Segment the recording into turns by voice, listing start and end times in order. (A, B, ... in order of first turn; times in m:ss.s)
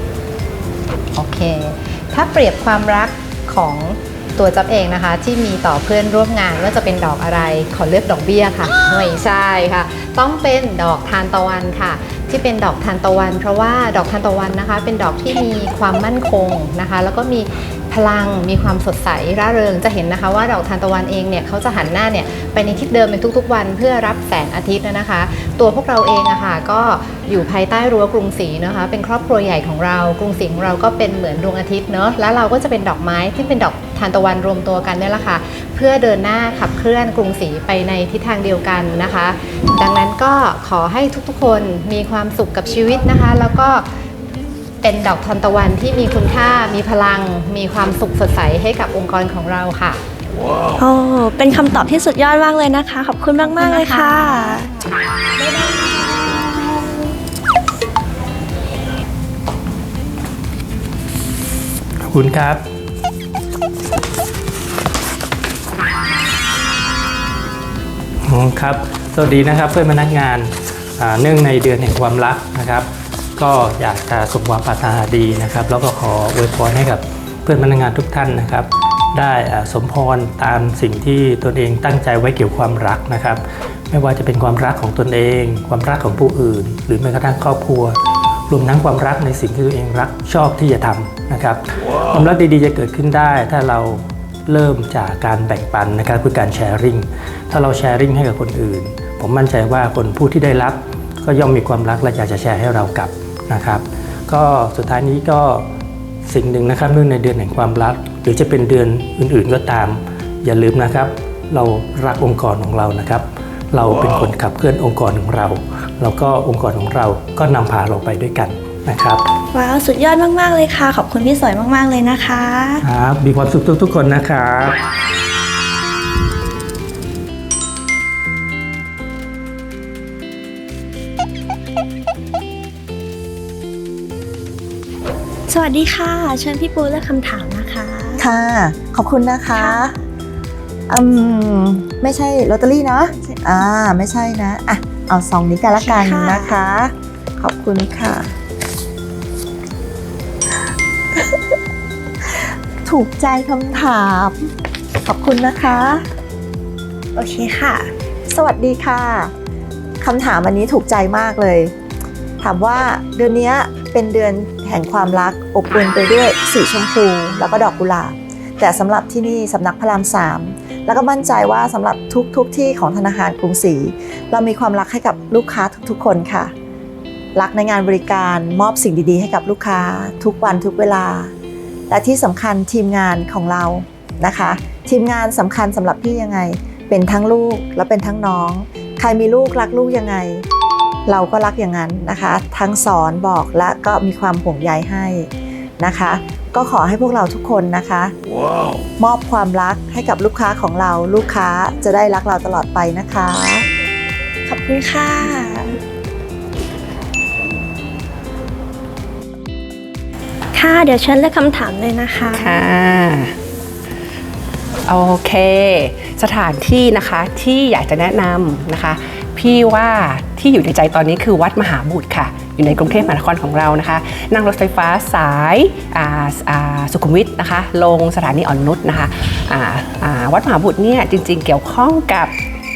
0:01.1-0:43.9 A
0:44.8-0:50.0 A
0:50.8-0:54.7 B
0:55.4-0:56.7 B
1:02.1-1:02.6 C
1:08.3-1:12.9 C
1:13.4-1:28.0 C
1:28.5-1:45.6 C
1:46.3-1:59.3 C
1:59.5-2:02.8 B
2:02.8-2:04.8 C
2:15.5-2:18.2 B
2:18.2-2:19.7 D
2:19.3-2:19.9 A
2:19.5-2:19.8 B
2:20.9-2:28.3 D
2:25.4-2:26.5 A
2:25.7-2:26.6 B
2:32.9-2:34.3 D
2:35.1-2:36.0 D
2:37.2-2:37.9 B
2:38.4-2:39.3 D
2:40.0-2:41.7 D
2:42.4-2:56.5 D
2:57.4-3:01.3 D
3:01.9-3:10.4 D
3:11.1-3:15.3 D
3:15.8-3:18.1 D
3:19.0-3:23.6 D
3:24.5-3:25.8 B
3:30.5-3:32.6 B
3:32.3-3:33.3 E
3:34.9-3:52.3 E